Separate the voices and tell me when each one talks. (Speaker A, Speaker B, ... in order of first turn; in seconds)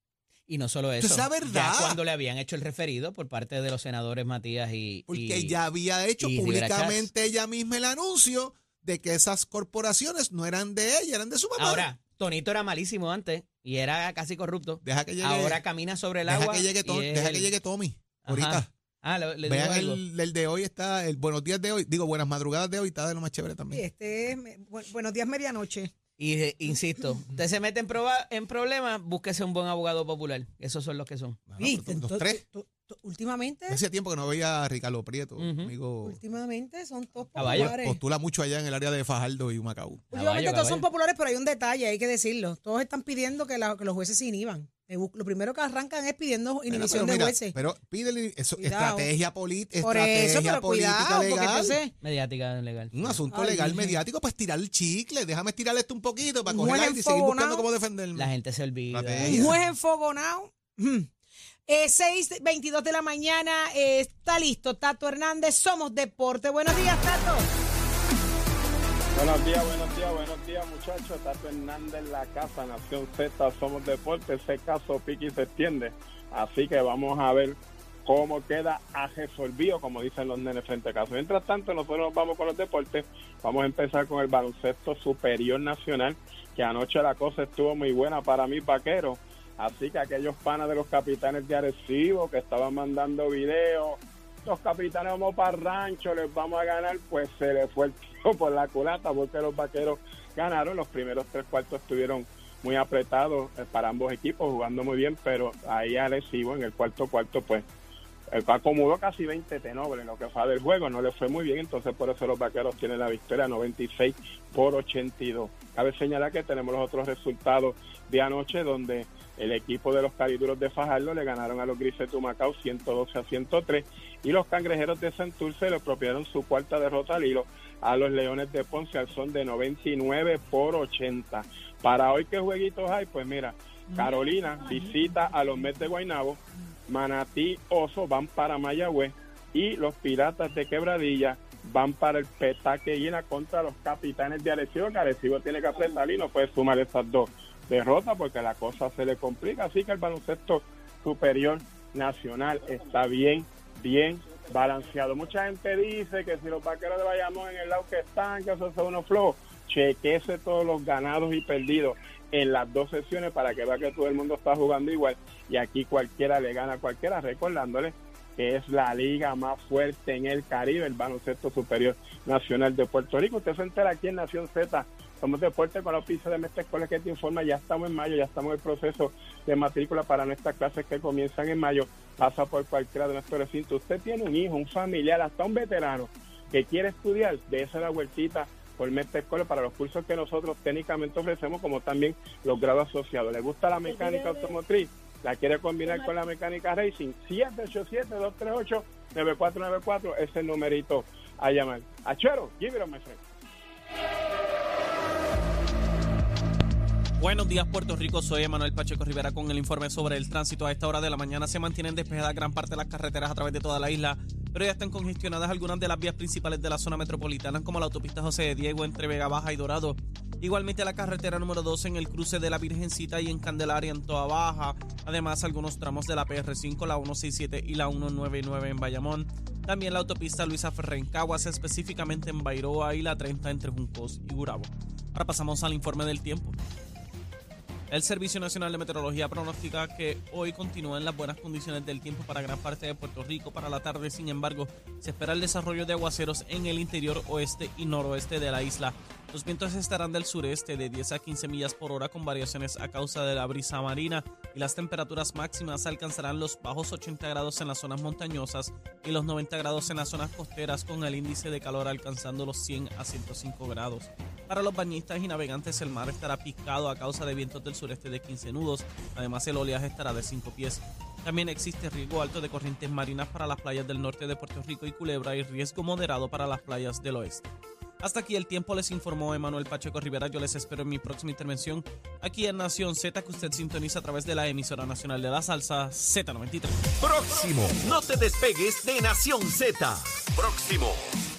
Speaker A: 0.5-5.6, 6.2-7.1, 11.6-17.5, 18.2-20.0, 26.2-31.4, 35.4-35.7, 37.4-37.7, 40.1-40.9, 52.0-53.2, 58.1-59.5
Speaker B: 1.0-2.0, 5.1-11.9, 14.8-15.6, 16.2-18.7, 19.4-23.9, 31.5-32.4, 33.7-36.2, 37.4-40.1, 46.7-51.8, 52.9-58.3, 58.9-59.6
Speaker C: 23.7-25.9, 31.6-33.8, 36.0-38.0, 40.1-47.5, 48.6-49.1, 49.8-51.9, 53.3-54.0, 56.5-57.6, 59.2-61.1, 61.7-67.5
Speaker D: 69.1-107.7, 108.3-203.2
Speaker E: 207.2-236.6, 237.9-277.4, 278.0-286.8
Speaker F: 287.0-291.0